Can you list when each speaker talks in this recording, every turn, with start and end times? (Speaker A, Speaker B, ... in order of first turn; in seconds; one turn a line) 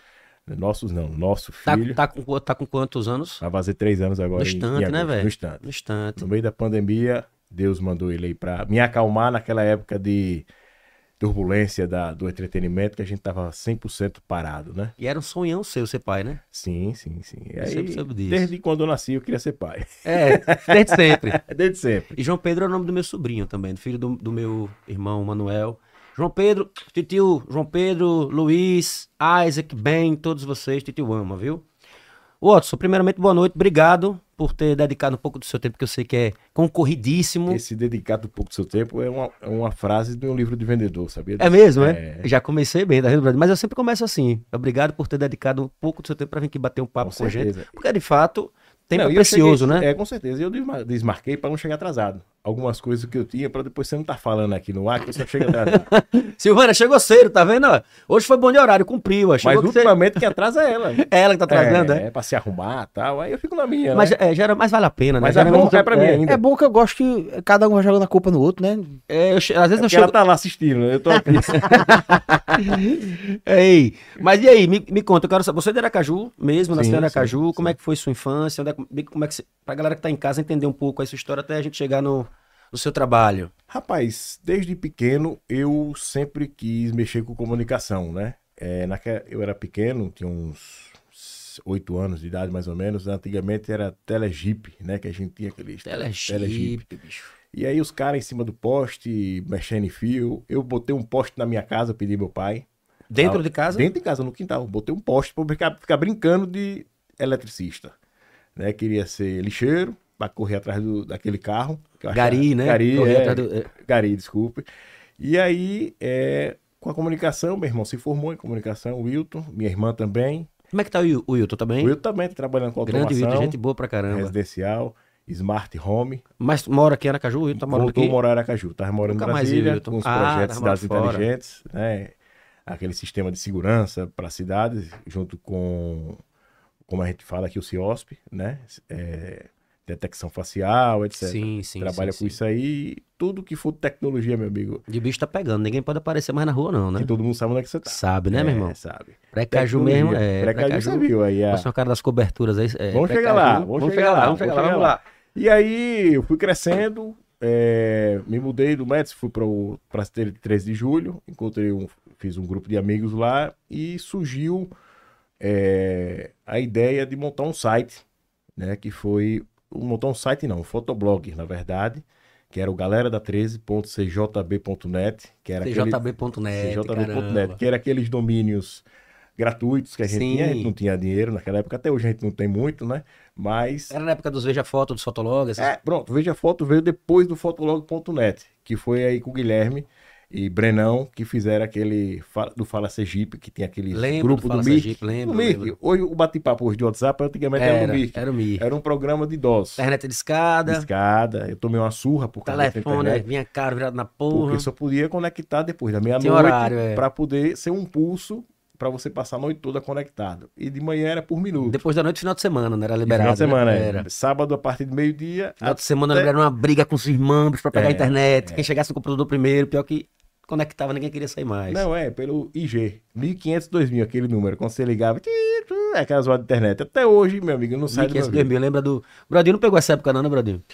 Speaker A: 0.5-2.0
Speaker B: 1.6-3.4
Speaker A: 3.4-5.6
Speaker B: 4.3-6.2
Speaker A: 6.2-10.5
Speaker A: 11.2-14.9
Speaker B: 15.0-16.4
Speaker A: 16.5-22.2
Speaker B: 17.6-18.5
Speaker B: 20.0-21.4
Speaker B: 22.1-31.6
Speaker B: 32.4-37.6
Speaker A: 37.5-42.3
Speaker B: 41.4-49.9
Speaker A: 47.0-47.7
Speaker A: 48.9-55.9
Speaker B: 55.2-60.2
Speaker A: 59.4-64.2
Speaker B: 61.0-62.0
Speaker B: 63.9-66.2
Speaker A: 65.2-66.4
Speaker C: 66.2-69.0
Speaker B: 69.1-70.1
Speaker A: 69.8-72.3
Speaker B: 71.3-83.5
Speaker A: 76.7-77.7
Speaker A: 83.7-96.8
Speaker B: 95.8-97.3
Speaker A: 97.5-102.7
Speaker B: 103.1-103.9
Speaker A: 103.2-107.9
Speaker A: 108.5-114.7
Speaker B: 112.1-113.7
Speaker A: 115.2-120.5
Speaker B: 120.7-121.9
Speaker A: 121.8-123.6
Speaker B: 122.8-124.3
Speaker A: 124.1-126.2
Speaker B: 126.4-128.2
Speaker A: 127.5-132.1
Speaker B: 129.0-131.3
Speaker A: 132.7-136.2
Speaker A: 136.9-144.8
Speaker B: 141.2-142.4
Speaker B: 144.9-147.1
Speaker A: 146.9-151.7
Speaker B: 147.8-148.8
Speaker B: 149.3-155.0
Speaker A: 152.9-164.7
Speaker A: 165.4-168.0
Speaker A: 168.6-176.0
Speaker B: 175.6-177.6
Speaker A: 176.5-178.8
Speaker A: 179.4-183.9
Speaker B: 180.1-180.7
Speaker B: 183.9-185.7
Speaker A: 185.6-199.8
Speaker B: 193.9-195.7
Speaker B: 197.6-198.7
Speaker B: 199.8-200.9
Speaker A: 200.7-203.3
Speaker B: 202.4-204.7
Speaker A: 204.3-211.8
Speaker B: 206.2-207.0
Speaker B: 211.6-214.1
Speaker A: 213.0-216.3
Speaker B: 215.6-221.8
Speaker A: 217.7-218.7
Speaker A: 221.7-228.5
Speaker B: 227.9-230.6